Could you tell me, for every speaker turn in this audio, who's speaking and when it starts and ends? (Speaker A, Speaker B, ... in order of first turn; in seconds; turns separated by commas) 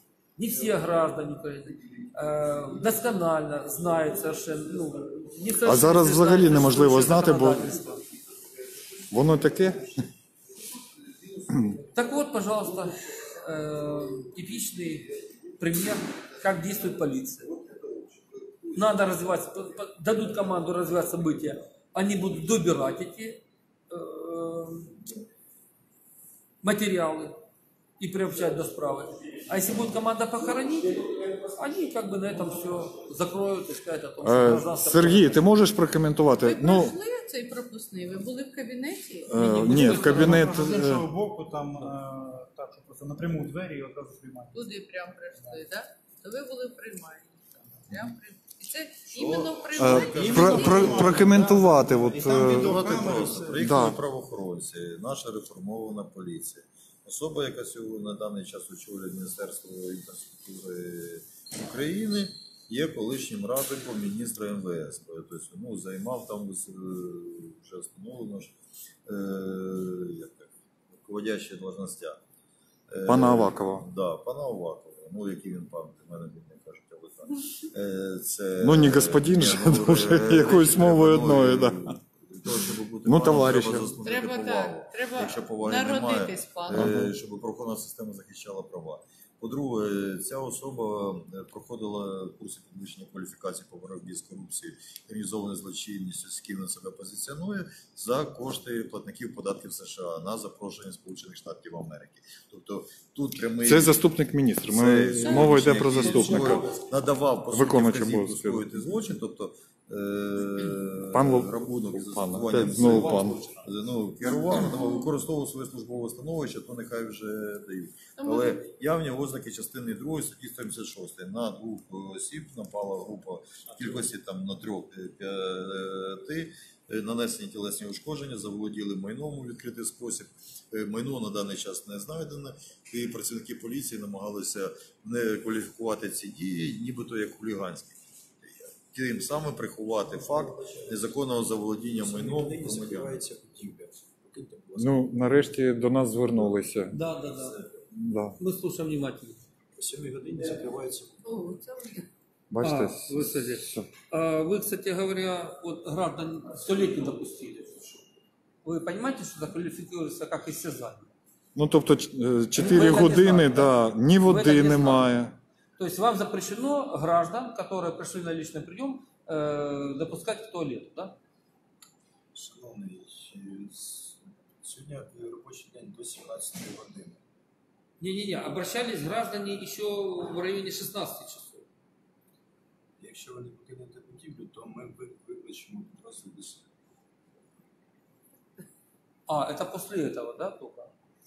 Speaker A: 0.4-8.0, Speaker B: 5.6-7.7, Speaker B: 9.1-10.0, Speaker A: 11.9-17.5, Speaker A: 18.7-25.0, Speaker A: 26.6-27.4, Speaker A: 28.0-35.4, Speaker B: 34.2-37.0, Speaker C: 36.4-40.2, Speaker B: 39.3-41.0, Speaker D: 39.5-44.6, Speaker C: 44.5-51.2, Speaker E: 49.1-68.5, Speaker B: 49.8-52.8, Speaker D: 50.2-53.7, Speaker B: 53.6-54.0, Speaker E: 69.0-72.2, Speaker E: 72.9-104.0, Speaker B: 73.0-73.9, Speaker B: 78.6-81.9, Speaker B: 83.0-84.0, Speaker C: 84.0-86.9, Speaker B: 86.7-87.1, Speaker B: 103.6-106.7, Speaker E: 104.7-143.2, Speaker B: 107.5-108.7, Speaker B: 111.1-113.4, Speaker F: 112.6-113.6, Speaker C: 118.2-118.6, Speaker F: 142.0-145.0, Speaker B: 144.8-147.0, Speaker A: 146.9-147.6, Speaker B: 147.9-148.4, Speaker A: 148.4-149.4, Speaker F: 149.8-151.2, Speaker C: 151.2-152.1, Speaker B: 152.5-153.9, Speaker A: 152.6-158.0, Speaker A: 158.6-161.1, Speaker B: 161.6-165.4, Speaker A: 162.6-165.1, Speaker A: 165.8-171.2, Speaker F: 172.3-177.2, Speaker A: 178.0-181.6, Speaker F: 183.0-186.6, Speaker A: 189.3-190.9